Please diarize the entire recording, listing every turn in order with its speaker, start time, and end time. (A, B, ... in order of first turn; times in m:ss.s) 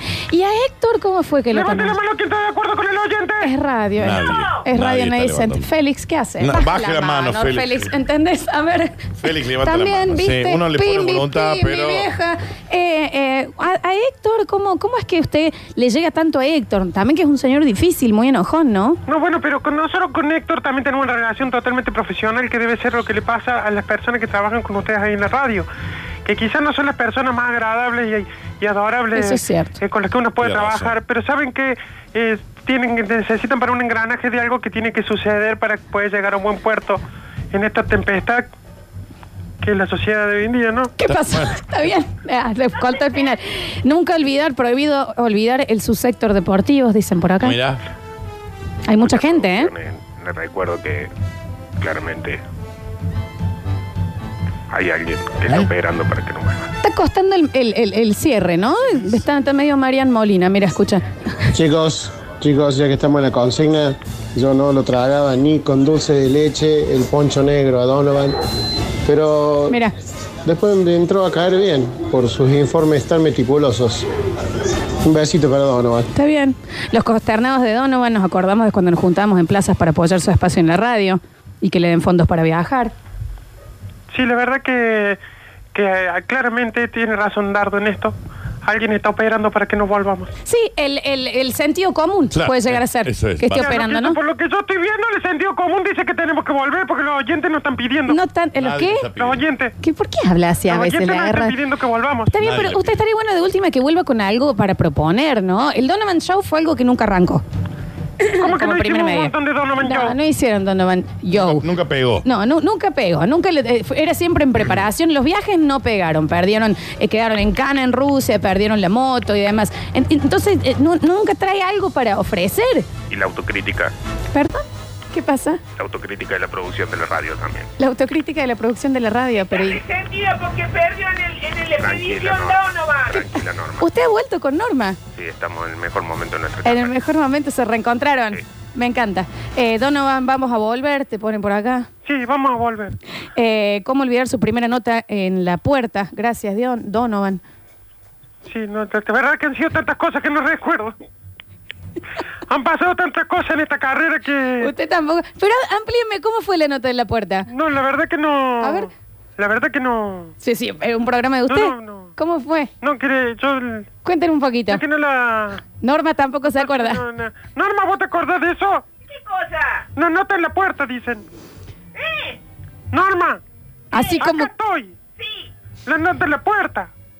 0:00.3-0:02.0 A
0:01.5-0:03.4 B
0:03.4-0:19.0 A
0:04.0-0:05.7 C
0:06.4-0:07.9 C
0:09.2-0:12.1 C
0:19.1-0:25.7 B
0:26.2-0:37.0 B
0:29.1-0:29.8 A
0:30.4-0:31.0 C
0:37.5-0:38.4 B
0:39.6-0:40.9 B
0:40.5-0:40.9 D
0:41.0-0:47.6 A
0:41.0-0:41.6 C
0:47.4-0:47.8 C
0:48.9-0:49.7 A
0:49.0-0:51.1 E
0:51.8-0:52.4 E
0:54.7-0:56.7 E
0:56.8-1:01.0 A
1:01.5-1:08.4 F
1:09.0-1:09.8 F
1:09.7-1:09.9 A
1:10.4-1:14.1 F
1:15.0-1:16.1 F
1:16.1-1:22.9 A
1:24.1-1:25.2 B
1:25.7-1:30.3 B
1:30.5-1:34.2 A
1:32.3-1:33.8 C
1:33.7-1:38.1 B
1:38.1-1:39.1 A
1:38.6-1:39.4 C
1:39.2-1:39.7 B
1:39.8-1:41.6 A
1:40.7-1:42.2 B
1:41.3-1:41.7 D
1:42.3-1:47.4 A
1:42.4-1:42.9 C
1:48.2-1:51.7 A
1:48.4-1:50.1 B
1:49.0-1:49.3 D
1:51.3-1:52.3 C
1:52.2-2:02.9 A
2:03.1-2:03.9 E
2:04.3-2:05.6 A
2:05.8-2:07.7 E
2:07.8-2:09.8 A
2:09.8-2:12.6 D
2:11.8-2:13.9 E
2:13.8-2:15.0 A
2:15.2-2:16.9 E
2:16.6-2:21.9 A
2:22.0-2:22.9 B
2:22.7-2:22.9 D
2:23.3-2:27.4 A
2:28.5-2:30.9 B
2:32.5-2:34.6 B
2:34.4-2:34.7 D
2:34.6-2:37.5 A
2:37.5-2:38.6 B
2:38.4-2:38.8 D
2:38.6-2:38.9 A
2:39.4-2:40.3 B
2:40.4-2:42.7 A
2:41.5-2:42.0 B
2:41.7-2:42.1 D
2:42.8-2:43.8 B
2:44.0-2:44.8 A
2:44.8-2:45.6 B
2:45.8-2:47.0 A
2:47.0-2:48.8 B
2:49.3-2:49.9 D
2:50.0-2:51.2 B
2:52.0-2:52.4 D
2:52.9-2:53.4 B
2:52.9-2:53.4 D
2:53.9-2:54.5 A
2:53.9-2:54.9 D
2:54.2-2:54.9 B
2:55.9-2:56.9 B
2:56.5-2:56.9 D